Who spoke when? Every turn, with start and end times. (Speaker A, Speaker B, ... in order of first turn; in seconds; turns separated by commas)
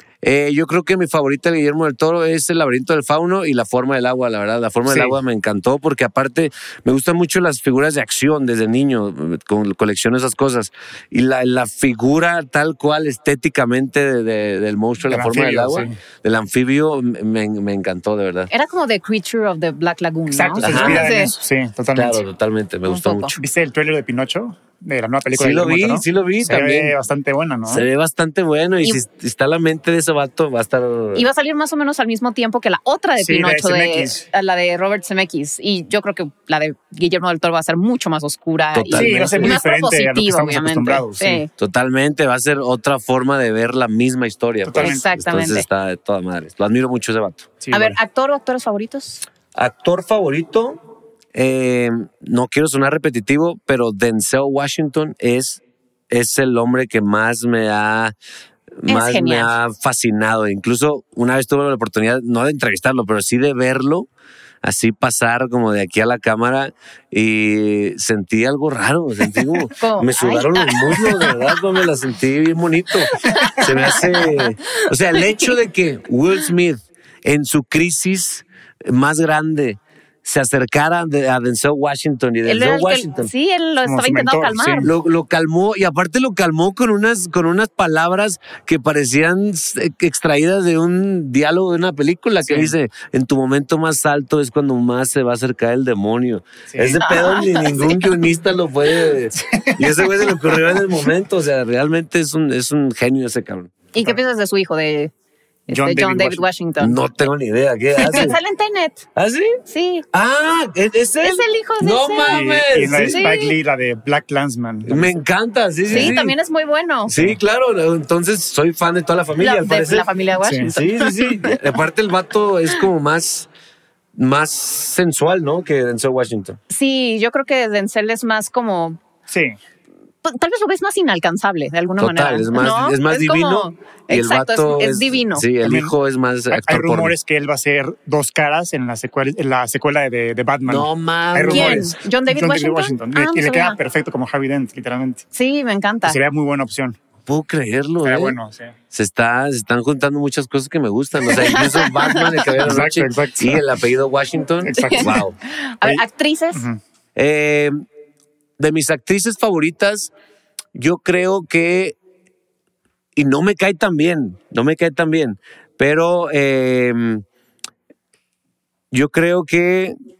Speaker A: 0.2-18.5, Speaker B: 4.9-5.1, Speaker B: 15.1-15.9, Speaker C: 18.5-21.3, Speaker B: 20.3-22.2, Speaker A: 20.6-21.1, Speaker A: 21.9-23.4, Speaker C: 22.8-23.4, Speaker B: 23.4-27.9, Speaker A: 25.3-26.9, Speaker A: 27.6-31.3, Speaker C: 31.1-41.5, Speaker B: 33.2-34.2, Speaker A: 38.7-39.6, Speaker B: 38.9-41.4, Speaker A: 41.6-47.6, Speaker B: 44.7-45.1, Speaker C: 44.8-45.6, Speaker B: 47.6-48.0, Speaker C: 47.7-49.2, Speaker A: 49.5-50.8, Speaker A: 51.3-58.1, Speaker A: 58.8-64.1, Speaker C: 58.9-59.5, Speaker A: 64.6-83.3, Speaker C: 69.7-71.5, Speaker C: 73.1-75.5, Speaker C: 82.4-84.9, Speaker B: 83.8-84.9, Speaker A: 84.8-103.7, Speaker B: 92.4-92.7, Speaker B: 96.7-97.0, Speaker C: 97.0-98.1, Speaker B: 99.3-100.8, Speaker C: 103.9-105.1, Speaker C: 105.7-107.1, Speaker B: 105.7-106.5, Speaker A: 106.8-108.4, Speaker C: 108.0-109.1, Speaker A: 109.1-109.6, Speaker C: 109.7-110.0, Speaker A: 110.1-113.3, Speaker C: 111.2-112.4, Speaker B: 112.3-115.1, Speaker C: 113.1-113.5, Speaker A: 114.8-116.3, Speaker B: 115.9-116.2, Speaker C: 115.9-117.1, Speaker A: 117.1-120.1, Speaker C: 119.4-121.6, Speaker A: 120.6-123.5, Speaker A: 124.2-126.6, Speaker C: 126.7-129.0, Speaker B: 129.3-129.6, Speaker C: 130.2-135.5, Speaker A: 132.0-137.1, Speaker B: 135.6-135.9, Speaker B: 136.5-145.2, Speaker A: 140.6-141.8, Speaker C: 141.5-143.8, Speaker C: 145.3-146.2, Speaker B: 146.1-147.0, Speaker A: 147.2-148.4, Speaker B: 148.0-148.7, Speaker A: 148.9-155.3, Speaker C: 151.3-152.4, Speaker B: 152.6-153.6, Speaker B: 154.6-155.2, Speaker C: 154.8-155.2, Speaker C: 155.8-156.7, Speaker B: 156.5-156.8, Speaker A: 157.2-157.7, Speaker A: 158.6-160.1, Speaker A: 160.7-161.9, Speaker A: 163.1-167.2, Speaker A: 168.9-169.9